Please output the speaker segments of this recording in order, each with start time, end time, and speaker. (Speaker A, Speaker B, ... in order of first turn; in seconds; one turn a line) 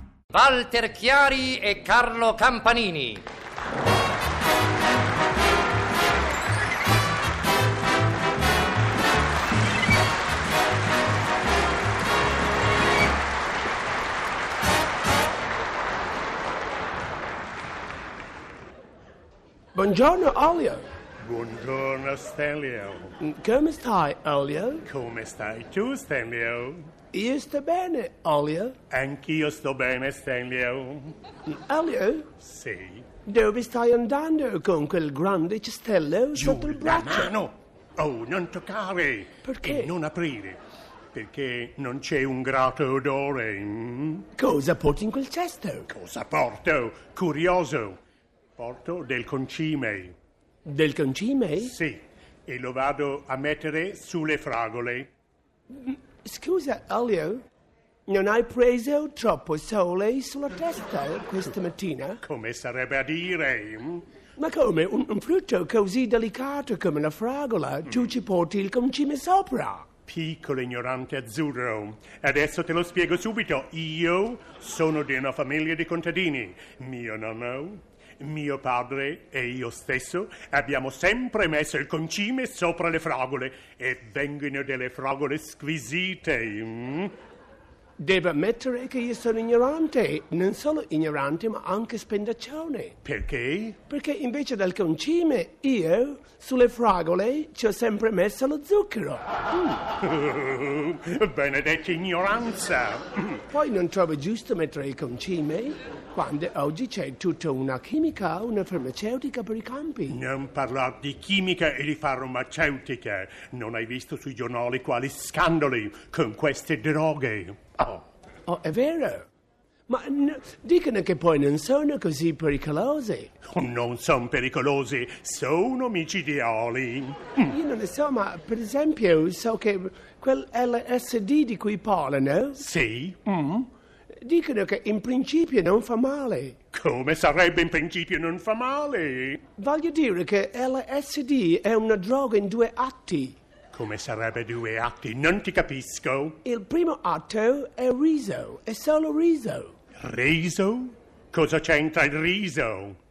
Speaker A: 0.3-3.2
Speaker B: 19.7-20.8
Speaker C: 21.2-23.1
Speaker B: 23.2-24.9
Speaker C: 24.8-26.9
Speaker B: 27.1-28.8
Speaker C: 28.9-31.2
Speaker B: 31.4-32.3
Speaker C: 32.4-33.1
Speaker B: 33.2-37.3
Speaker C: 36.3-40.6
Speaker B: 39.4-39.9
Speaker C: 41.1-44.2
Speaker B: 44.3-45.9
Speaker C: 45.9-48.0
Speaker C: 48.6-50.1
Speaker B: 50.6-51.7
Speaker C: 51.6-55.1
Speaker B: 55.7-57.4
Speaker B: 58.1-62.2
Speaker C: 62.2-64.0
Speaker B: 64.4-69.9
Speaker C: 70.1-87.1
Speaker B: 88.0-93.0
Speaker C: 93.0-93.8
Speaker B: 93.9-99.8
Speaker C: 100.0-103.4
Speaker B: 103.5-110.2
Speaker C: 110.1-118.0
Speaker B: 118.5-119.2
Speaker B: 119.9-123.3
Speaker C: 123.5-127.5
Speaker B: 127.4-132.6
Speaker C: 132.6-133.7
Speaker B: 134.2-136.6
Speaker C: 136.7-139.4
Speaker B: 139.6-143.4
Speaker C: 143.7-146.4
Speaker B: 146.4-149.7
Speaker C: 150.0-153.0